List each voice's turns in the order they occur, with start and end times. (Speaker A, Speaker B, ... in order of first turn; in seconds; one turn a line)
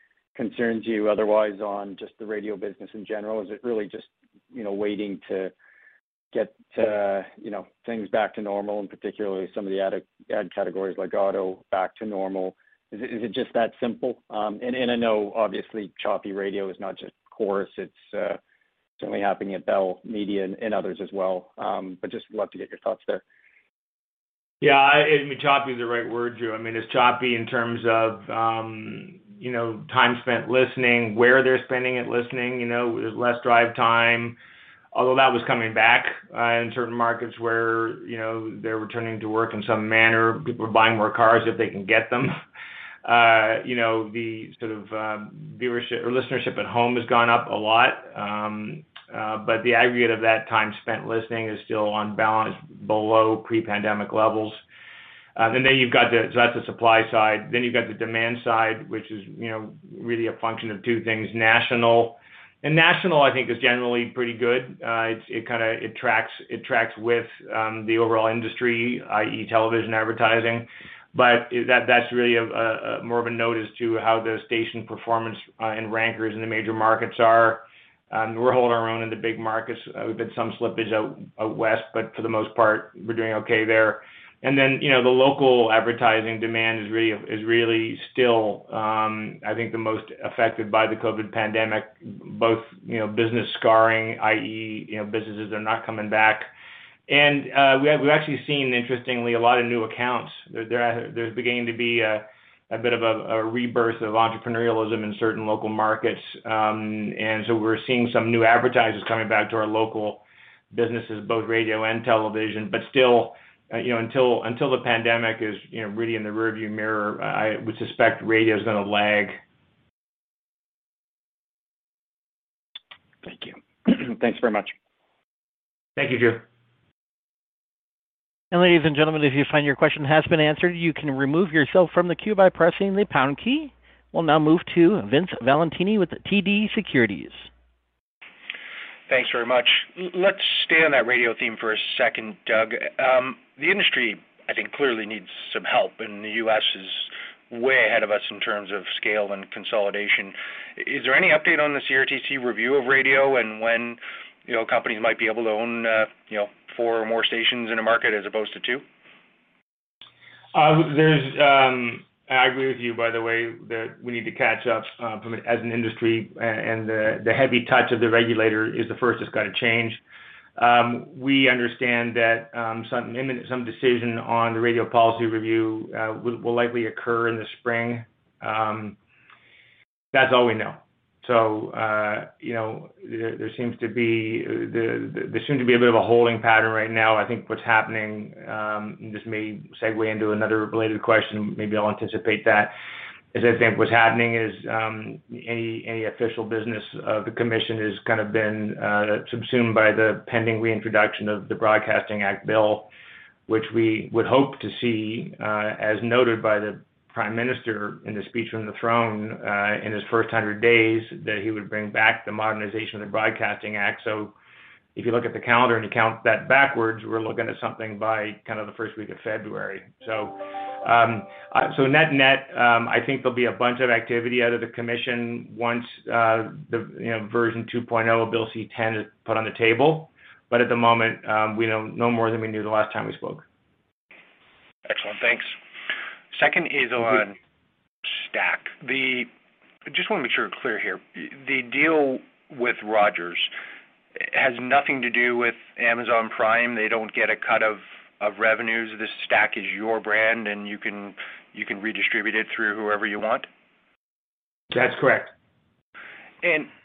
Speaker A: 0.3-5.5
Speaker A: 6.3-18.4
Speaker A: 19.0-23.2
Speaker B: 24.6-34.4
Speaker B: 34.9-42.4
Speaker B: 43.0-54.6
Speaker B: 55.4-96.5
Speaker B: 97.1-119.4
Speaker A: 123.2-124.7
Speaker B: 126.0-126.4
Speaker C: 128.5-137.4
Speaker D: 139.1-158.8
Speaker B: 160.5-170.0
Speaker B: 170.6-179.0
Speaker B: 180.1-192.7
Speaker B: 193.3-202.9
Speaker B: 203.5-214.3
Speaker B: 214.9-233.4
Speaker D: 234.8-235.6
Speaker D: 236.3-237.4
Speaker D: 238.1-239.3
Speaker D: 239.9-243.5
Speaker D: 244.2-253.5
Speaker B: 254.7-255.3
Speaker D: 256.4-256.7